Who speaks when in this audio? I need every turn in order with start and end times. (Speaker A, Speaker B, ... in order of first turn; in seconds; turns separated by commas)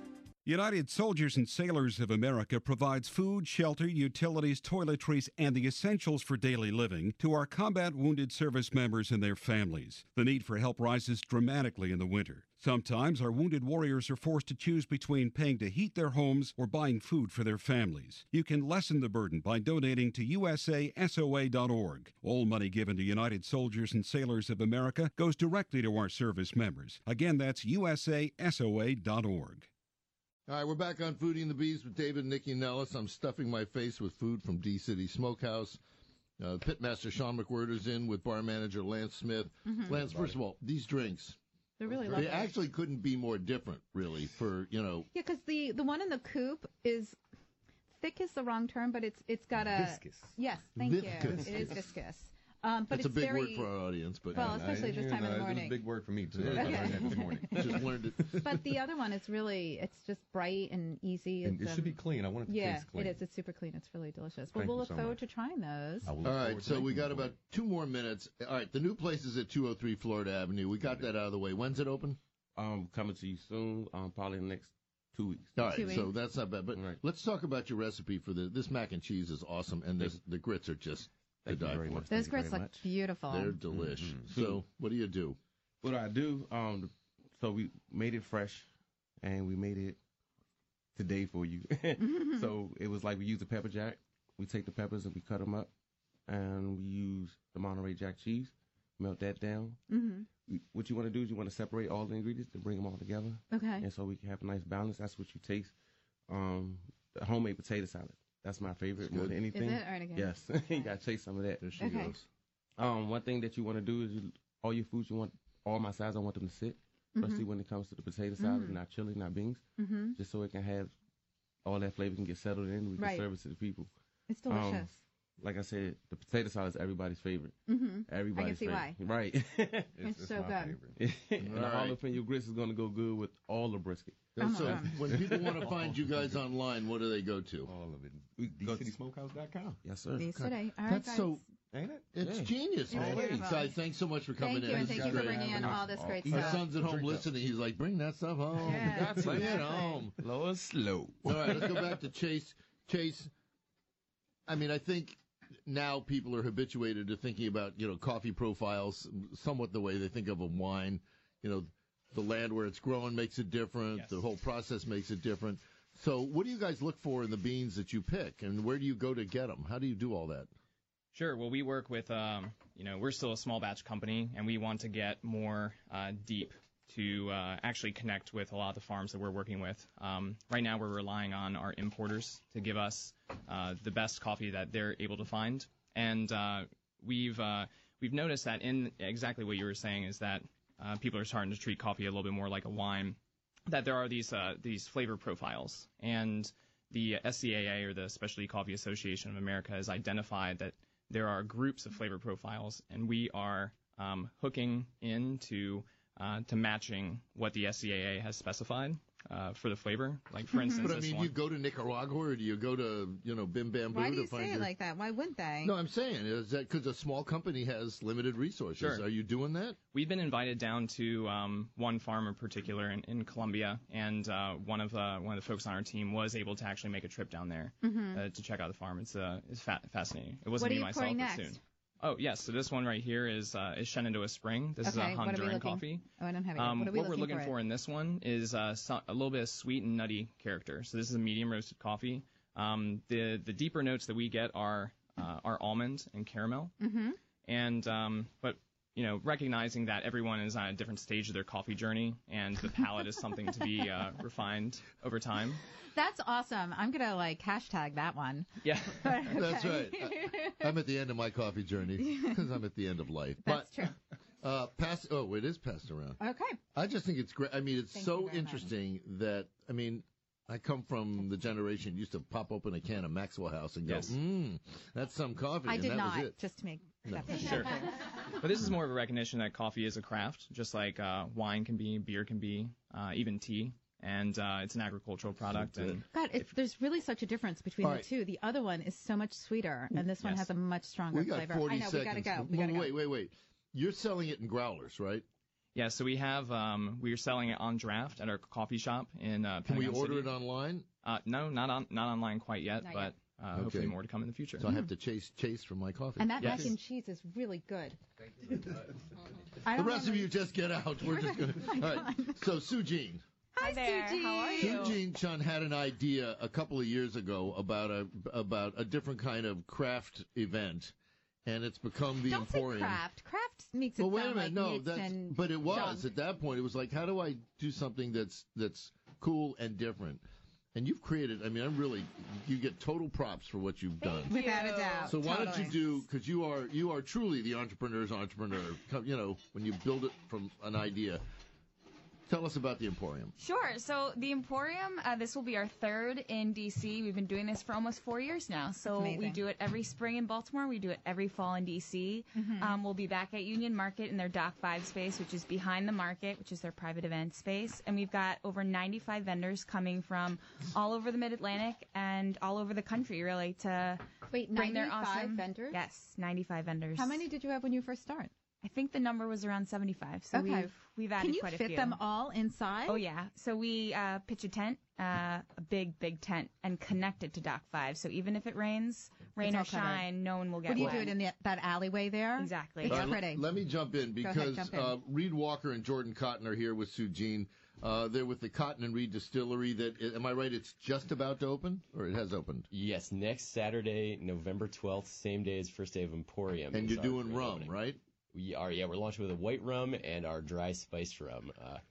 Speaker A: 0.4-29.7, Speaker B: 30.5-35.8, Speaker B: 36.4-41.4, Speaker C: 39.6-40.0, Speaker D: 39.9-40.4, Speaker C: 41.8-42.5, Speaker D: 41.9-42.3, Speaker B: 42.1-45.1, Speaker C: 45.1-47.2, Speaker C: 47.9-53.7, Speaker D: 49.6-50.4, Speaker B: 50.8-51.8, Speaker D: 51.2-51.7, Speaker B: 52.9-54.7, Speaker D: 54.3-57.9, Speaker C: 54.3-55.8, Speaker B: 56.4-56.9, Speaker C: 56.5-57.8, Speaker B: 57.5-58.4, Speaker C: 58.3-66.1, Speaker D: 61.4-63.2, Speaker D: 64.5-65.2, Speaker D: 66.0-67.3, Speaker B: 66.2-72.2, Speaker E: 72.5-76.0, Speaker B: 75.5-82.1, Speaker C: 75.7-76.1, Speaker E: 76.7-77.0, Speaker E: 81.4-82.8, Speaker C: 82.1-83.6, Speaker B: 83.3-85.4, Speaker D: 83.7-84.3, Speaker E: 84.2-84.6, Speaker E: 85.8-88.7, Speaker E: 89.2-90.0, Speaker E: 90.9-95.7, Speaker C: 92.0-92.5, Speaker E: 96.3-99.8, Speaker C: 99.9-100.3, Speaker E: 100.5-105.7, Speaker C: 103.5-103.8, Speaker E: 106.3-111.7, Speaker B: 109.0-109.3, Speaker C: 109.5-110.9, Speaker B: 111.6-112.3, Speaker C: 111.8-112.1, Speaker E: 112.8-119.6, Speaker C: 117.2-117.4, Speaker C: 118.4-118.8, Speaker C: 119.8-120.2, Speaker E: 120.1-120.9, Speaker E: 121.6-123.9, Speaker C: 123.0-123.2, Speaker C: 124.3-125.0, Speaker E: 124.5-129.9, Speaker C: 127.7-128.9, Speaker D: 129.9-131.0, Speaker C: 130.0-130.8, Speaker E: 130.9-135.9, Speaker B: 131.4-132.0, Speaker B: 134.4-137.7, Speaker C: 134.4-135.0, Speaker D: 135.6-136.3, Speaker D: 137.7-139.8, Speaker E: 138.4-138.9, Speaker E: 139.8-140.4, Speaker C: 140.2-141.4, Speaker B: 140.3-141.4, Speaker D: 141.7-142.1, Speaker B: 142.1-150.2, Speaker E: 142.2-143.6, Speaker C: 142.9-143.7, Speaker C: 144.4-146.6, Speaker D: 144.7-147.2, Speaker E: 144.9-146.6, Speaker C: 148.6-150.0, Speaker E: 148.7-151.9, Speaker B: 151.2-153.3, Speaker B: 154.5-170.5, Speaker F: 163.9-164.2, Speaker F: 171.1-211.3, Speaker C: 210.5-210.9, Speaker B: 210.8-214.7, Speaker C: 213.9-215.7, Speaker B: 215.6-219.8, Speaker F: 218.8-219.0, Speaker F: 219.9-246.7, Speaker C: 227.8-228.2, Speaker C: 230.6-231.6, Speaker C: 234.8-237.5, Speaker C: 246.8-247.2, Speaker F: 247.4-255.6, Speaker C: 255.9-260.7, Speaker F: 258.6-259.2, Speaker B: 259.3-263.9, Speaker C: 262.0-262.4, Speaker C: 263.4-263.9, Speaker B: 264.4-266.2, Speaker C: 266.2-266.6, Speaker B: 266.7-276.4, Speaker C: 267.9-268.7, Speaker F: 273.9-274.1, Speaker C: 275.7-277.9, Speaker B: 277.0-277.7, Speaker F: 277.3-286.0, Speaker B: 285.6-285.9, Speaker C: 286.1-292.9, Speaker B: 287.8-288.1, Speaker B: 291.1-295.2, Speaker F: 295.7-300.3, Speaker B: 299.6-300.9, Speaker F: 301.0-304.6, Speaker C: 302.9-303.1, Speaker B: 303.5-303.9, Speaker B: 304.6-306.7, Speaker C: 304.6-304.9, Speaker C: 306.2-308.0, Speaker F: 306.4-306.7, Speaker C: 309.6-310.3, Speaker B: 309.7-313.2, Speaker C: 311.0-312.4, Speaker C: 313.5-314.9, Speaker G: 313.6-315.0, Speaker B: 314.6-320.9, Speaker B: 321.4-323.0, Speaker C: 322.3-326.0, Speaker B: 324.0-334.3, Speaker C: 334.3-335.8, Speaker G: 334.4-334.9, Speaker B: 335.1-341.2, Speaker B: 342.3-343.3, Speaker G: 343.4-367.2, Speaker C: 348.9-349.4, Speaker C: 352.3-352.8, Speaker C: 364.3-365.8, Speaker C: 366.9-368.3, Speaker G: 368.6-372.0, Speaker C: 370.3-373.0, Speaker G: 372.9-381.2, Speaker C: 379.4-380.1, Speaker C: 380.6-383.4, Speaker G: 382.4-383.1, Speaker B: 382.9-392.7, Speaker C: 384.2-385.0, Speaker H: 392.7-397.7, Speaker B: 396.7-398.0, Speaker H: 398.3-401.8